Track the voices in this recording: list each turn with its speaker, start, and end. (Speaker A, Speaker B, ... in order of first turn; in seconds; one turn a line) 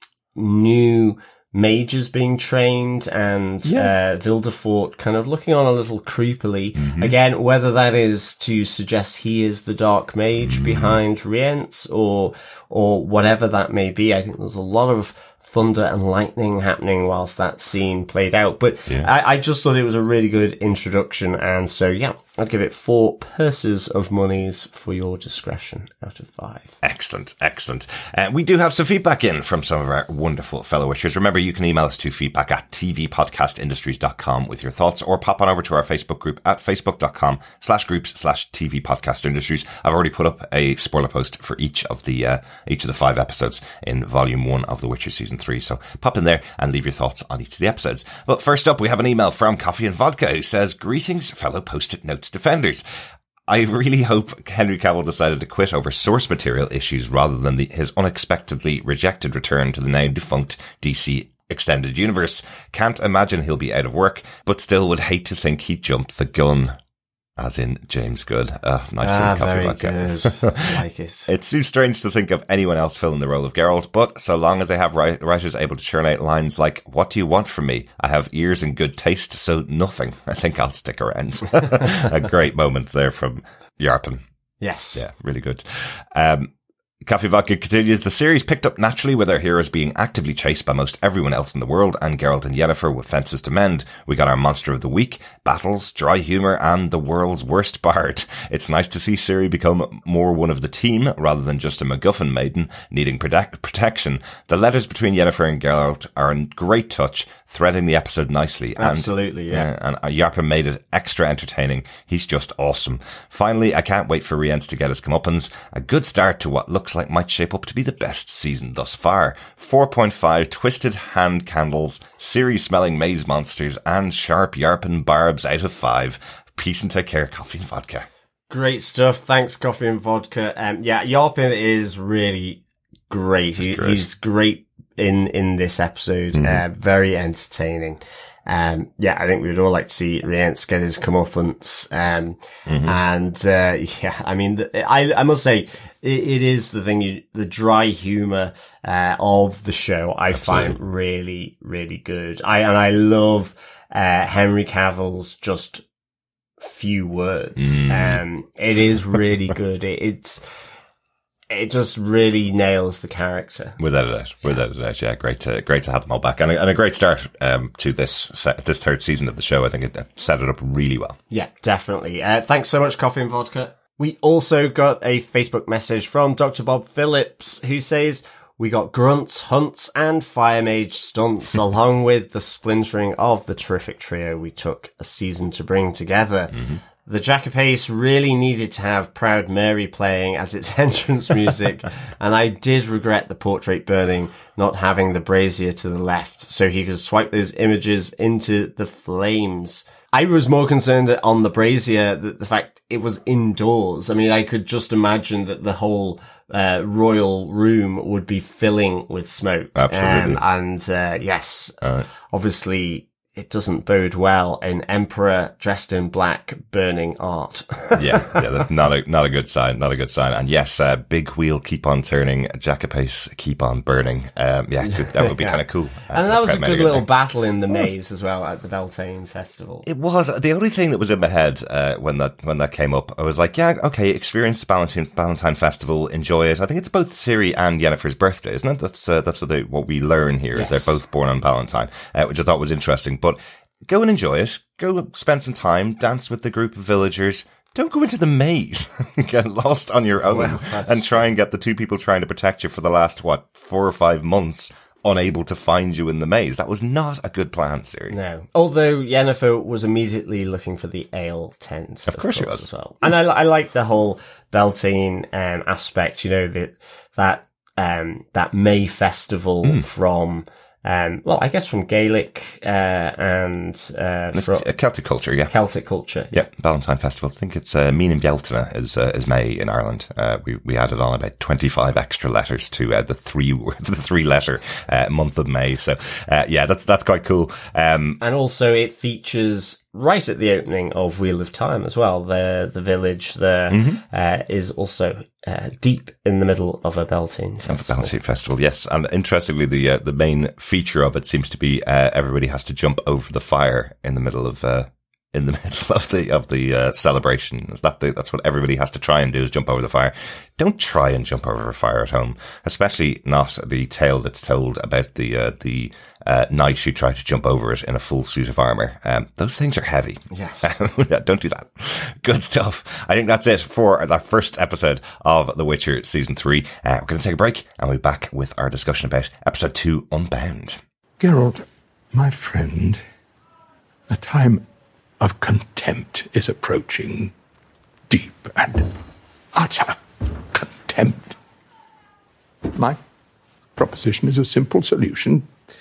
Speaker A: 0.3-26.8
Speaker B: 3.6-3.9
Speaker B: 6.8-7.1
Speaker B: 10.4-11.0
Speaker B: 26.8-52.8
Speaker B: 53.5-66.8
Speaker B: 67.4-84.2
Speaker A: 69.0-71.3
Speaker A: 84.6-85.0
Speaker B: 84.9-86.5
Speaker B: 87.0-128.1
Speaker A: 108.8-109.7
Speaker A: 128.5-155.8
Speaker B: 133.6-134.0
Speaker B: 136.3-136.6
Speaker B: 142.7-143.0
Speaker B: 150.3-150.7
Speaker A: 156.6-160.4
Speaker B: 157.6-158.2
Speaker A: 161.5-163.8
Speaker B: 163.8-171.2
Speaker A: 171.3-211.8
Speaker B: 209.7-210.4
Speaker B: 211.8-212.1
Speaker A: 212.3-218.4
Speaker B: 217.9-227.1
Speaker A: 225.1-229.8
Speaker B: 229.8-258.1
Speaker A: 240.5-241.0
Speaker A: 250.2-251.2
Speaker A: 258.1-274.7
Speaker B: 262.1-262.7
Speaker B: 274.3-275.5
Speaker A: 275.5-276.4
Speaker B: 276.3-288.2
Speaker A: 288.2-298.1
Speaker B: 293.7-294.0
Speaker B: 297.7-330.8
Speaker A: 320.3-320.8
Speaker C: 331.2-333.0
Speaker C: 334.1-334.6
Speaker C: 335.2-337.3
Speaker C: 338.1-339.0
Speaker C: 339.5-341.4
Speaker C: 342.7-343.0
Speaker C: 343.8-345.4